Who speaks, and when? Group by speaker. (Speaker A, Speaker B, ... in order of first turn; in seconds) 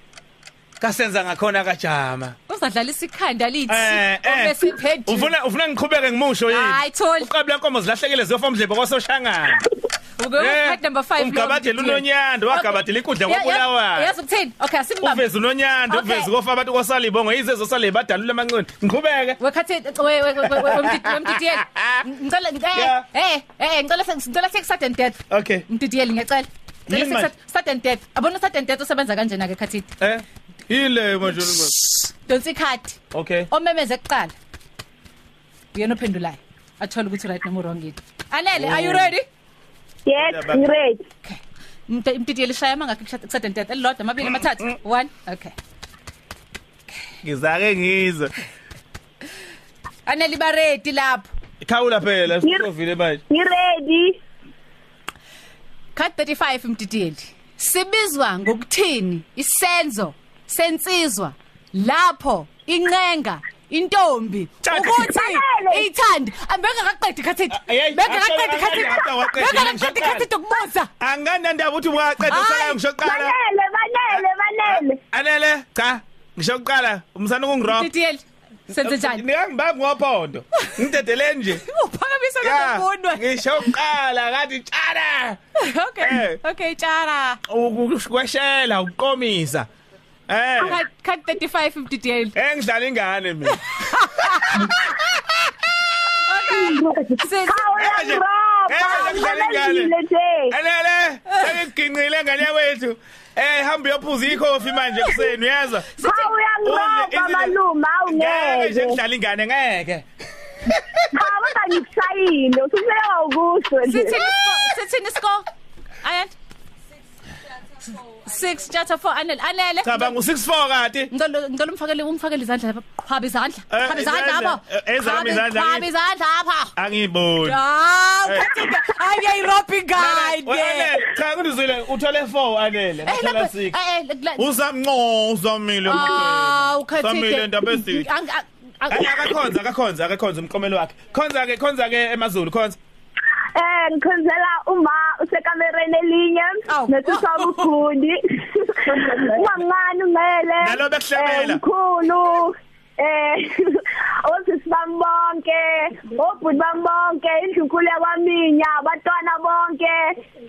Speaker A: 0.8-2.4, 3.7-9.7, 10.4-14.1, 15.0-19.4, 20.4-22.1, 22.7-23.1, 25.3-25.6, 26.9-27.3, 30.0-31.8, 33.1-33.5, 38.6-39.1, 40.2-40.7, 47.2-48.3, 51.6-53.2, 64.6-65.1, 67.5-70.3, 71.0-73.3, 74.1-77.9, 78.8-81.6, 82.4-85.4, 86.0-86.4, 87.5-89.7, 90.3-90.8, 92.3-95.4, 97.8-99.9, 100.5-105.9, 106.6-110.0, 110.6-111.3, 119.8-121.1, 123.7-125.9, 126.8-127.6, 128.2-128.5, 129.9-133.8, 134.4-138.1, 138.9-142.8, 150.6-151.6
Speaker B: 2.5-5.3, 6.5-7.3, 10.2-15.2, 15.9-16.3, 19.4-29.9, 31.6-34.3, 35.7-39.2, 41.2-45.5, 50.0-51.3, 55.9-70.9, 72.2-72.8, 77.7-79.2, 81.5-83.7, 85.5-87.4, 90.6-92.3, 93.5-94.7, 96.3-97.7, 105.9-106.3, 113.8-115.5, 116.0-116.3, 117.9-120.2, 121.1-126.7, 127.4-131.0, 133.0-134.5, 135.8-139.3, 146.7-147.7
Speaker C: 40.0-41.0, 53.3-54.2, 65.0-65.9, 73.0-75.0, 96.3-100.5, 106.0-109.0, 111.1-114.2, 143.5-160.1